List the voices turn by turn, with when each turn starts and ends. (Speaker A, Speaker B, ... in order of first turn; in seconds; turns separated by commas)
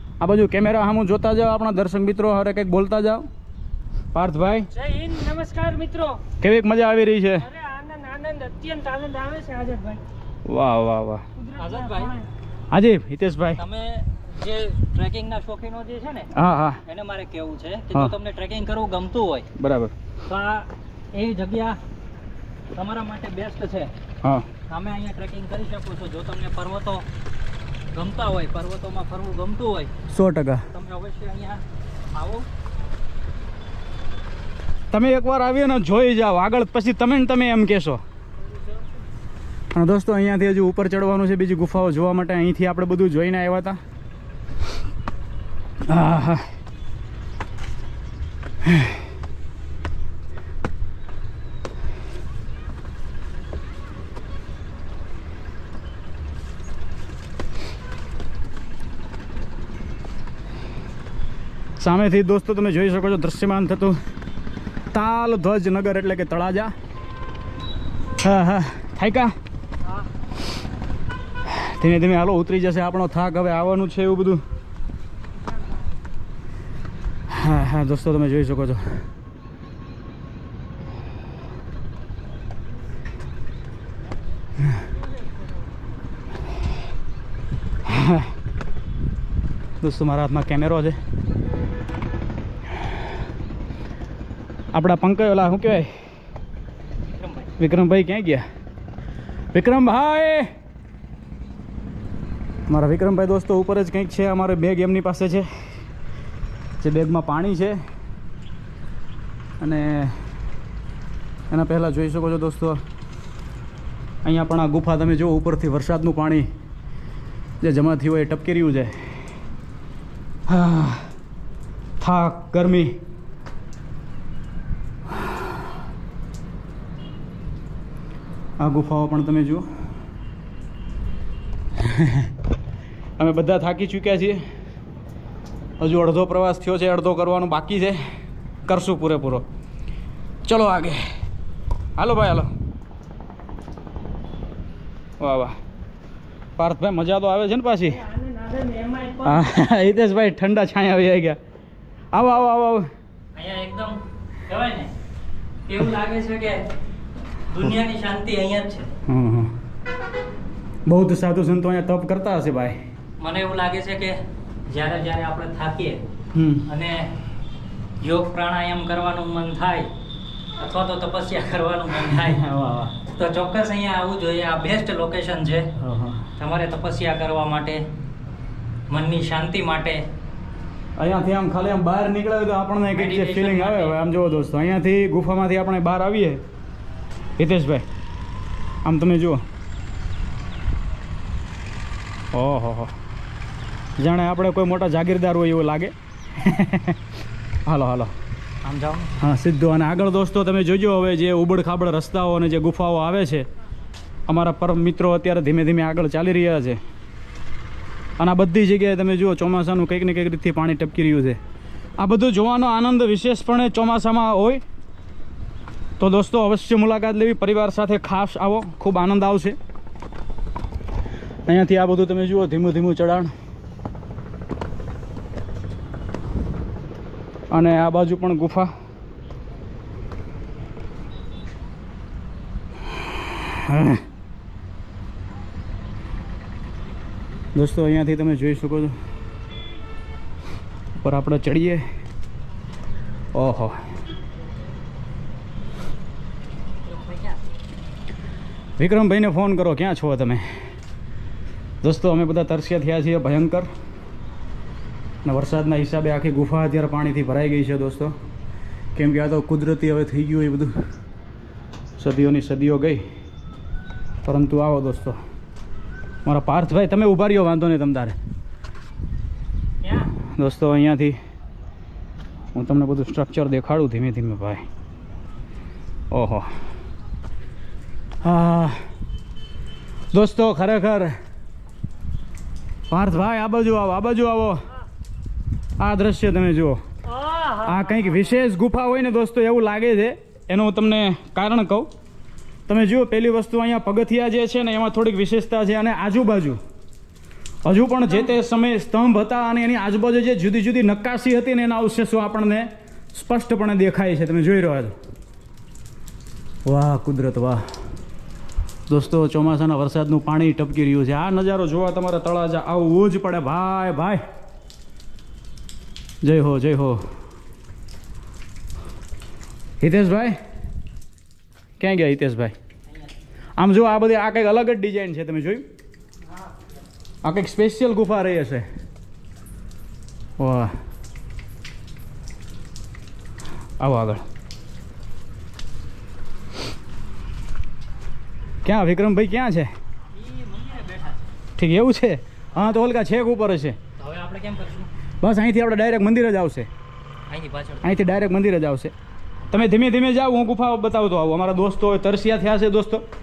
Speaker A: 0.2-3.2, Speaker A: 4.1-4.7, Speaker B: 4.7-6.2, Speaker A: 6.4-7.5, Speaker B: 7.4-10.0, Speaker A: 10.4-11.2, Speaker B: 11.4-12.3, Speaker C: 11.6-12.2, Speaker A: 12.7-13.6, Speaker C: 13.6-16.3, Speaker A: 16.3-16.8, Speaker C: 16.8-19.5, Speaker A: 19.5-19.9, Speaker C: 20.2-21.8, Speaker C: 22.7-23.9, Speaker C: 24.7-27.1, Speaker C: 27.9-29.9, Speaker A: 30.1-30.7, Speaker C: 30.7-32.5, Speaker A: 34.9-38.0, Speaker A: 39.7-43.8, Speaker A: 45.8-46.5, Speaker A: 48.6-49.0, Speaker A: 61.8-64.0, Speaker A: 64.9-66.7, Speaker A: 68.2-69.3, Speaker A: 71.5-74.4, Speaker A: 77.3-79.0, Speaker A: 87.8-88.3, Speaker A: 89.8-91.0, Speaker A: 94.7-95.9, Speaker C: 97.1-97.5, Speaker A: 97.6-98.4, Speaker A: 99.5-100.5, Speaker A: 102.7-105.5, Speaker A: 106.8-107.8, Speaker A: 109.6-110.2, Speaker A: 111.5-112.8, Speaker A: 114.2-116.5, Speaker A: 117.6-119.0, Speaker A: 120.5-121.1, Speaker A: 122.0-123.0, Speaker A: 125.1-125.6, Speaker A: 128.6-129.7, Speaker A: 131.8-132.3, Speaker A: 133.2-134.4, Speaker A: 135.8-138.0, Speaker A: 138.7-139.4, Speaker A: 140.4-141.0, Speaker A: 142.0-142.5, Speaker A: 145.2-145.6, Speaker A: 146.6-148.0, Speaker B: 147.9-149.4, Speaker A: 149.2-151.4, Speaker A: 152.1-152.9, Speaker C: 153.3-154.9, Speaker C: 155.7-156.6, Speaker C: 157.5-158.9, Speaker A: 159.1-159.6, Speaker A: 160.8-162.9, Speaker C: 163.2-166.0, Speaker A: 166.3-166.7, Speaker C: 166.7-167.1, Speaker C: 168.0-169.9, Speaker C: 170.6-172.4, Speaker A: 172.0-173.0, Speaker C: 173.0-175.7, Speaker A: 175.8-176.3, Speaker C: 176.4-177.8, Speaker C: 178.9-180.1, Speaker A: 181.0-186.4, Speaker C: 182.9-184.0, Speaker A: 187.4-187.8, Speaker A: 188.8-189.4, Speaker A: 192.3-192.9, Speaker A: 194.0-197.0, Speaker A: 197.6-198.1, Speaker C: 198.6-199.2, Speaker A: 199.2-203.5, Speaker A: 204.3-206.8, Speaker A: 208.2-211.4, Speaker A: 212.0-214.6, Speaker A: 216.0-219.6, Speaker A: 221.5-223.3, Speaker A: 227.5-228.7, Speaker A: 233.0-234.0, Speaker A: 237.5-238.9, Speaker A: 240.9-241.8, Speaker A: 243.3-243.8, Speaker C: 246.8-247.4, Speaker A: 248.8-250.4, Speaker A: 251.8-253.7, Speaker A: 255.2-258.1, Speaker A: 258.9-260.7, Speaker A: 262.0-263.0, Speaker A: 264.2-265.2, Speaker A: 266.2-268.1, Speaker C: 269.8-270.1, Speaker A: 270.3-271.2, Speaker A: 272.5-274.6, Speaker A: 276.1-276.5, Speaker A: 278.2-278.9, Speaker A: 280.1-281.1, Speaker A: 282.9-284.6, Speaker A: 285.8-286.8, Speaker B: 287.1-288.3, Speaker A: 287.6-291.9, Speaker A: 292.7-296.6, Speaker A: 297.6-304.9, Speaker A: 306.6-307.6, Speaker A: 308.9-314.2, Speaker A: 316.2-317.0, Speaker A: 319.8-320.4, Speaker A: 321.8-322.5, Speaker A: 323.6-325.6, Speaker A: 327.2-328.6, Speaker A: 330.4-330.7, Speaker A: 333.8-334.2, Speaker A: 338.6-339.7, Speaker C: 340.1-341.3, Speaker A: 341.6-343.8, Speaker C: 344.0-344.9, Speaker A: 345.2-346.7, Speaker C: 347.3-348.1, Speaker A: 347.8-348.9, Speaker A: 349.5-353.0